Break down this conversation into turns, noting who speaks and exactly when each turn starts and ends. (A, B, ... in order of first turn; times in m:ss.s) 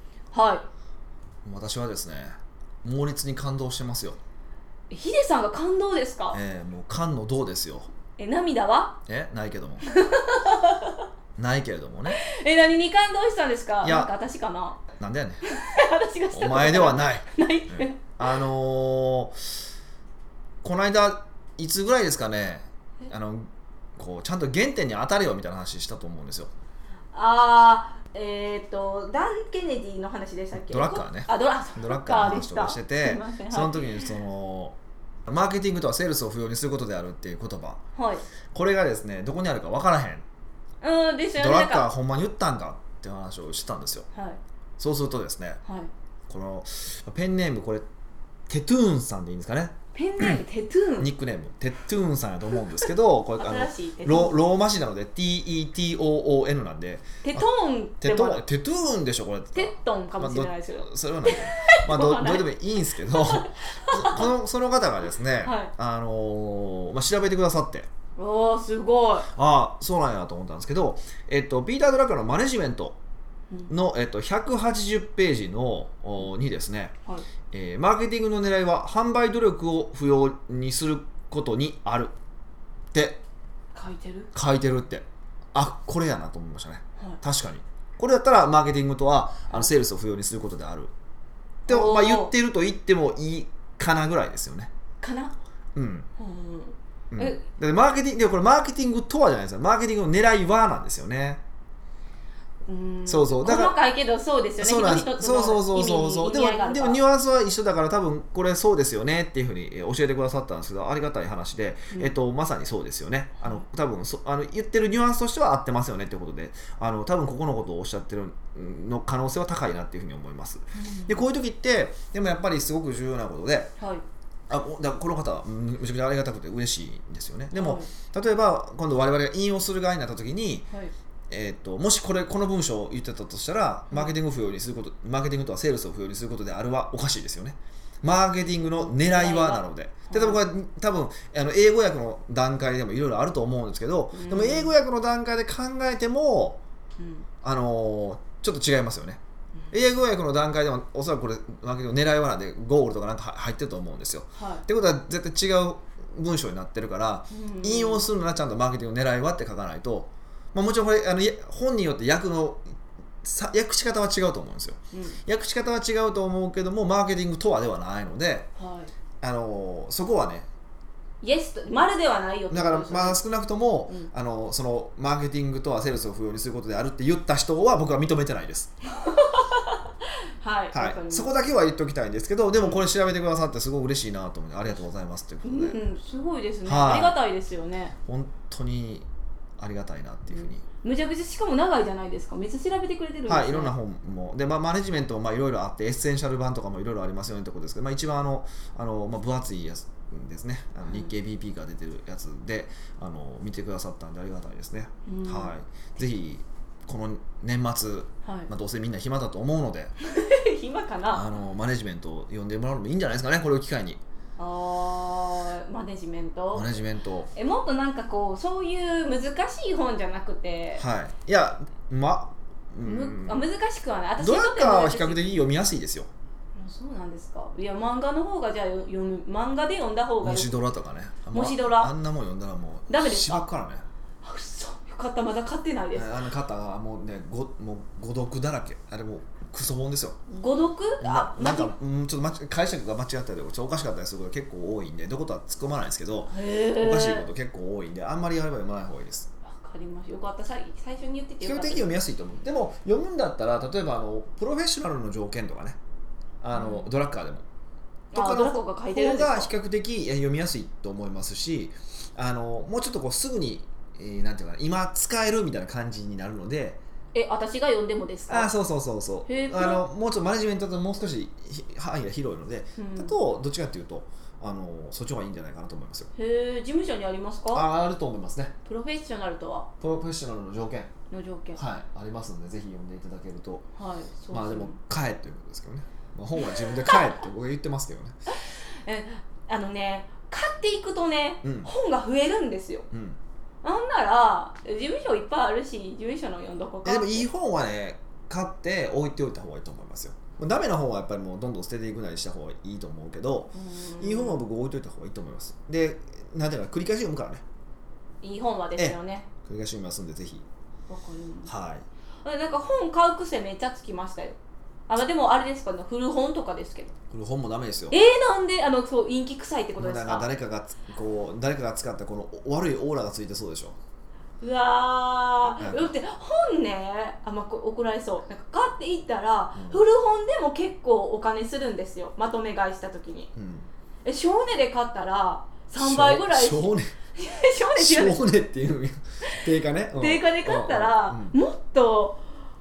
0:00.3-0:00.6 A
0:01.4-0:04.2 B
0:04.9-0:06.4 A
0:06.3-0:07.9 B
0:08.2-0:09.0 A
0:09.0-0:09.8 B
0:09.8-0:11.0 A
0:11.4-0:12.2 B
0:12.1-0:14.8 A
0:13.8-0:14.1 B
0:14.9-0:15.4 B
0:15.5-0:18.1 A
0:16.3-0:19.5 B
0:20.6-0:26.5 B
0:27.1-0:34.1 A
0:30.5-0:37.8 B
0:38.0-0:38.2 A
0:38.5-0:40.2 B
0:40.8-0:41.9 A
0:41.4-0:44.1 B
0:44.1-0:44.4 A
0:44.8-0:45.6 B
0:45.6-0:45.9 A
0:46.3-0:47.8 B
0:48.5-0:50.4 B
0:49.9-0:51.1 A
0:51.0-0:57.5 B
0:53.4-0:54.4 A
0:57.2-0:58.4 A
0:58.0-1:07.9 B
0:59.5-1:04.3 A
1:05.4-1:05.7 A
1:08.2-1:09.3 A
1:09.3-1:13.0 B
1:13.7-1:16.9 B
1:17.5-1:22.1 B
1:22.9-1:23.2 B
1:23.7-1:24.3 A
1:24.3-1:30.9 B
1:31.7-1:32.3 A
1:31.7-1:34.7 B
1:35.0-1:35.3 A
1:35.7-1:36.1 B
1:36.2-1:37.4 A
1:37.1-1:41.4 B
1:42.6-1:47.0 A
1:43.0-1:43.8 B
1:44.6-2:03.7 B
1:53.4-1:53.6 A
2:00.7-2:01.2 A
2:03.8-2:04.0 A
2:04.5-2:10.7 B
2:07.5-2:07.9 A
2:11.3-2:26.6 B
2:18.4-2:20.4 A
2:24.1-2:24.7 A
2:27.0-2:27.2 A
2:27.4-2:42.6 B
2:34.3-2:34.6 A
2:37.3-2:38.1 A
2:43.2-2:48.5 B
2:44.9-2:45.2 A
2:48.6-2:48.9 A
2:49.2-2:50.5 B
2:51.2-2:53.2 A
2:52.5-2:58.7 B
2:58.9-2:59.8 A
3:00.4-3:01.3 A
3:00.7-3:05.8 B
3:05.4-3:08.0 A
3:06.6-3:07.2 B
3:08.0-3:09.1 B
3:09.6-3:10.6 B
3:10.3-3:13.7 A
3:13.3-3:29.9 B
3:20.8-3:21.1 A
3:25.0-3:25.5 A
3:28.2-3:28.5 A
3:30.0-3:31.2 A
3:31.1-3:34.0 B
3:34.4-3:36.7 A
3:36.5-3:37.3 B
3:37.3-3:40.8 A
3:40.8-3:43.4 B
3:42.8-3:45.2 A
3:44.2-3:46.1 B
3:46.6-3:50.6 A
3:50.2-3:53.8 B
3:51.3-3:51.9 A
3:52.9-3:53.4 A
3:54.2-3:56.1 A
3:55.9-4:00.2 B
4:00.3-4:01.7 A
4:01.0-4:09.3 B
4:06.3-4:07.3 A
4:09.4-4:11.9 A
4:11.4-4:15.8 B
4:16.4-4:17.4 B
4:16.5-4:16.9 A
4:18.1-4:19.5 A
4:18.1-4:26.8 B
4:27.1-4:28.5 A
4:28.3-4:36.1 B
4:29.2-4:29.8 A
4:32.8-4:33.1 A
4:36.1-4:37.6 A
4:37.5-4:38.5 B
4:38.6-4:39.7 A
4:39.8-4:40.9 B
4:41.1-4:41.6 A
4:41.5-4:43.6 B
4:43.8-4:44.8 A
4:44.3-4:48.2 B
4:48.3-4:52.9 A
4:51.4-4:51.7 B
4:52.9-4:53.2 B
4:53.6-4:57.3 A
4:56.8-5:07.4 B
5:03.5-5:04.4 A
5:08.2-5:09.3 A
5:08.8-5:10.4 B
5:10.9-5:11.5 A
5:11.4-5:11.8 B
5:12.2-5:14.4 A
5:14.9-5:16.9 A
5:17.1-5:18.0 B
5:17.9-5:20.3 A
5:19.8-5:23.8 B
5:24.4-5:33.3 A
5:25.6-5:25.9 B
5:29.5-5:29.8 B
5:33.4-5:33.7 B
5:34.0-5:38.2 A
5:35.8-5:36.9 B
5:37.7-5:41.3 B
5:39.9-5:42.2 A